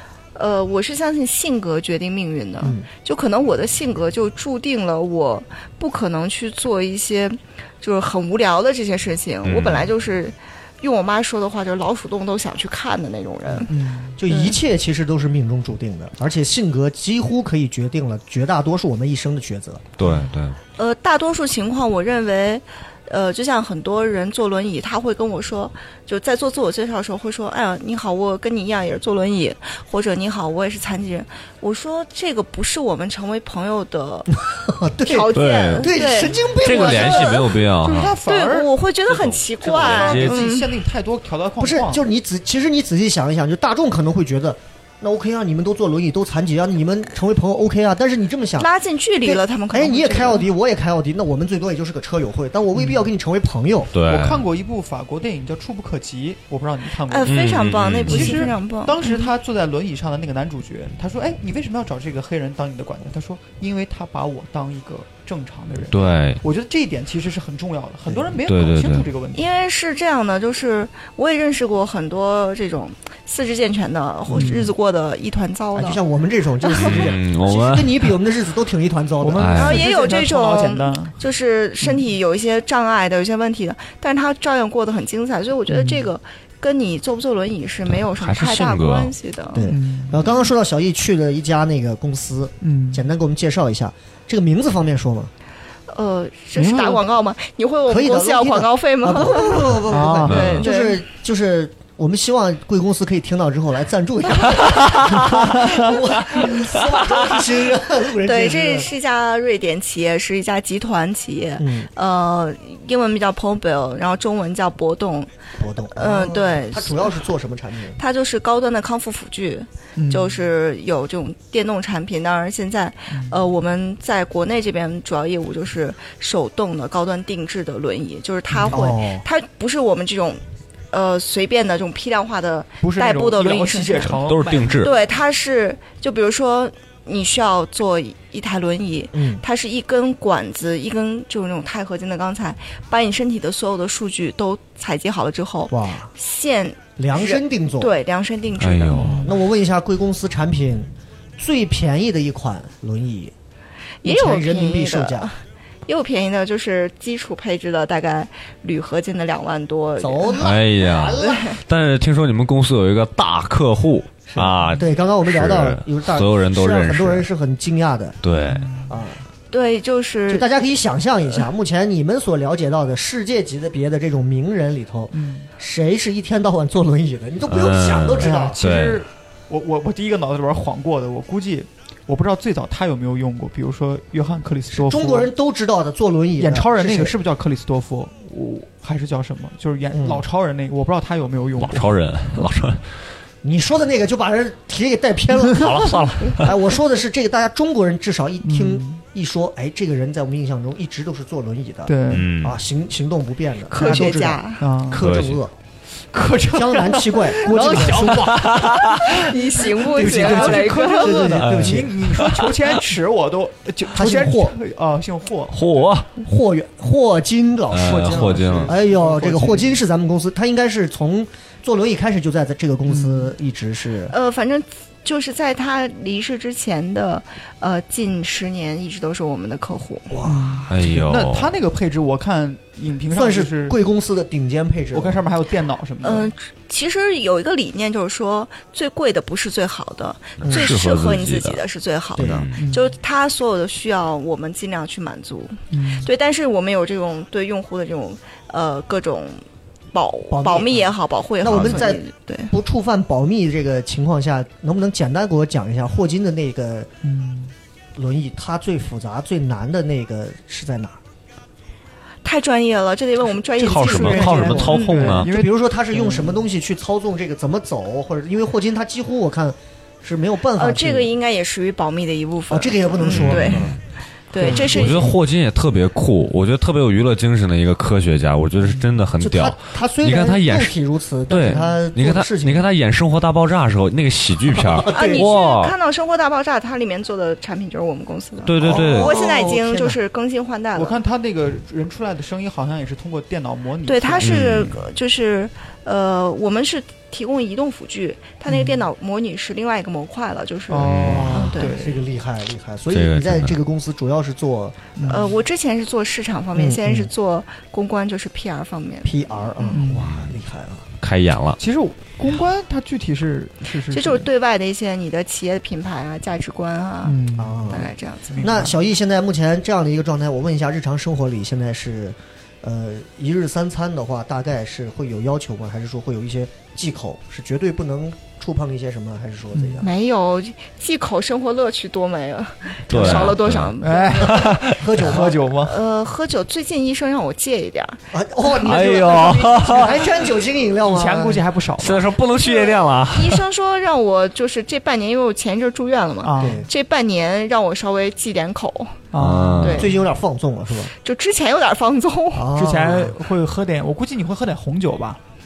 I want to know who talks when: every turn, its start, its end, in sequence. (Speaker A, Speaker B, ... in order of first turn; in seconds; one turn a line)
Speaker A: 0.3-13.7
Speaker B: 2.6-2.9
Speaker C: 9.4-9.9
Speaker B: 13.5-19.9
Speaker D: 13.7-14.2
Speaker A: 14.2-14.6
Speaker C: 20.0-20.6
Speaker D: 20.0-20.3
Speaker A: 20.8-34.4
Speaker B: 34.5-37.5
Speaker A: 35.0-37.5
Speaker C: 35.3-36.0
Speaker C: 36.6-38.1
Speaker D: 37.8-42.0
Speaker A: 38.2-40.7
Speaker C: 39.6-40.5
Speaker B: 41.6-48.7
Speaker A: 48.6-50.5
Speaker B: 49.2-53.9
Speaker D: 52.7-53.0
Speaker C: 53.9-54.5
Speaker D: 54.0-69.4
Speaker A: 57.1-59.3
Speaker C: 57.3-58.4
Speaker C: 65.9-66.4
Speaker B: 68.0-68.4
Speaker C: 68.5-69.1
Speaker A: 69.3-76.0
Speaker B: 74.3-74.5
Speaker D: 74.3-74.7
Speaker B: 75.7-79.8
Speaker A: 76.6-77.1
Speaker C: 76.8-78.1
Speaker D: 79.2-81.2
Speaker C: 79.4-79.8
Speaker A: 79.5-89.7
Speaker D: 85.7-86.1
Speaker C: 87.9-89.1
Speaker B: 89.5-95.3
Speaker D: 89.7-90.2
Speaker D: 92.6-93.0
Speaker A: 95.9-101.0
Speaker D: 96.5-97.0
Speaker B: 97.9-108.9
Speaker D: 99.9-100.5
Speaker C: 100.3-100.6
Speaker D: 105.3-105.9
Speaker A: 108.2-115.3
Speaker B: 111.6-111.9
Speaker B: 115.6-118.0
Speaker A: 115.9-117.2
Speaker A: 118.0-134.2
Speaker D: 120.0-120.4
Speaker D: 123.1-123.4
Speaker D: 128.5-128.8
Speaker B: 128.7-129.2
Speaker D: 132.8-135.0
Speaker C: 134.2-134.9
Speaker A: 134.8-149.2
Speaker B: 139.1-139.4
Speaker B: 145.7-146.1
Speaker B: 147.0-147.9
Speaker C: 148.6-149.2
Speaker B: 149.0-153.3
Speaker A: 154.0-160.4
Speaker B: 154.0-155.3
Speaker B: 160.0-161.5
Speaker C: 160.4-167.3
Speaker A: 161.2-161.6
Speaker B: 164.3-168.2
Speaker C: 168.2-168.7
Speaker D: 168.5-169.0
Speaker B: 168.9-169.2
Speaker A: 169.5-170.5
Speaker B: 170.3-178.6
Speaker D: 175.1-175.5
Speaker C: 177.5-179.0
Speaker D: 178.2-185.3
Speaker B: 184.7-187.2
Speaker D: 186.4-192.5
Speaker B: 189.9-190.2
Speaker C: 191.6-193.0
Speaker B: 193.4-205.5
Speaker C: 195.6-196.5
Speaker D: 198.4-199.0
Speaker D: 201.8-202.2
Speaker C: 202.1-202.6
Speaker A: 203.7-204.6
Speaker D: 203.8-204.1
Speaker D: 204.6-205.0
Speaker C: 204.9-205.4
Speaker D: 206.1-215.9
Speaker B: 206.5-208.5
Speaker C: 208.2-209.0
Speaker A: 209.0-211.3
Speaker B: 209.9-212.0
Speaker C: 211.3-212.7
Speaker B: 213.9-214.6
Speaker C: 215.5-216.1
Speaker B: 216.2-224.1
Speaker C: 217.7-218.8
Speaker D: 217.8-219.8
Speaker D: 222.9-223.3
Speaker A: 224.1-230.2
Speaker B: 230.1-230.7
Speaker D: 230.2-233.8
Speaker C: 230.7-231.5
Speaker B: 233.1-235.2
Speaker D: 234.9-236.3
Speaker A: 236.0-252.5
Speaker C: 240.4-241.6
Speaker B: 240.4-240.7
Speaker B: 242.2-242.4
Speaker C: 242.2-242.6
Speaker D: 242.6-242.9
Speaker D: 245.7-246.1
Speaker B: 250.3-256.9
Speaker D: 257.0-257.5
Speaker B: 257.9-261.0
Speaker A: 262.2-265.2
Speaker C: 263.6-265.3
Speaker B: 263.6-271.1
Speaker D: 264.4-266.4
Speaker A: 270.6-273.7
Speaker B: 272.5-273.8
Speaker C: 273.1-273.8
Speaker A: 274.3-275.1
Speaker B: 274.4-275.1
Speaker C: 274.4-280.7
Speaker B: 279.2-282.7
Speaker C: 281.3-285.7
Speaker B: 284.5-285.3
Speaker A: 284.9-291.0
Speaker C: 288.4-289.1
Speaker B: 288.6-290.0
Speaker D: 290.7-294.8
Speaker A: 293.9-301.8
Speaker C: 294.2-294.7
Speaker D: 298.5-298.8
Speaker D: 300.7-302.0
Speaker C: 300.8-301.4
Speaker B: 301.0-305.0
Speaker C: 302.9-303.6
Speaker D: 304.9-305.3
Speaker A: 305.1-309.8
Speaker B: 306.5-307.1
Speaker B: 309.0-310.9
Speaker D: 309.7-310.1
Speaker C: 309.9-310.3
Speaker C: 311.0-311.6
Speaker D: 311.6-314.3
Speaker A: 313.9-318.4
Speaker D: 317.0-318.8
Speaker B: 317.4-329.9
Speaker D: 329.5-329.8
Speaker A: 329.8-334.4
Speaker C: 332.9-334.9
Speaker B: 332.9-333.3
Speaker D: 333.8-335.8
Speaker B: 334.5-335.4
Speaker A: 335.6-340.2
Speaker B: 338.1-341.4
Speaker C: 338.6-340.0
Speaker D: 340.8-342.1
Speaker C: 341.8-343.4
Speaker A: 342.4-349.0
Speaker D: 346.2-346.7
Speaker B: 346.4-346.7
Speaker D: 349.1-350.0
Speaker C: 349.1-349.9
Speaker A: 349.6-349.9
Speaker B: 349.7-350.9
Speaker A: 350.9-352.5
Speaker B: 352.3-353.1
Speaker D: 352.5-355.2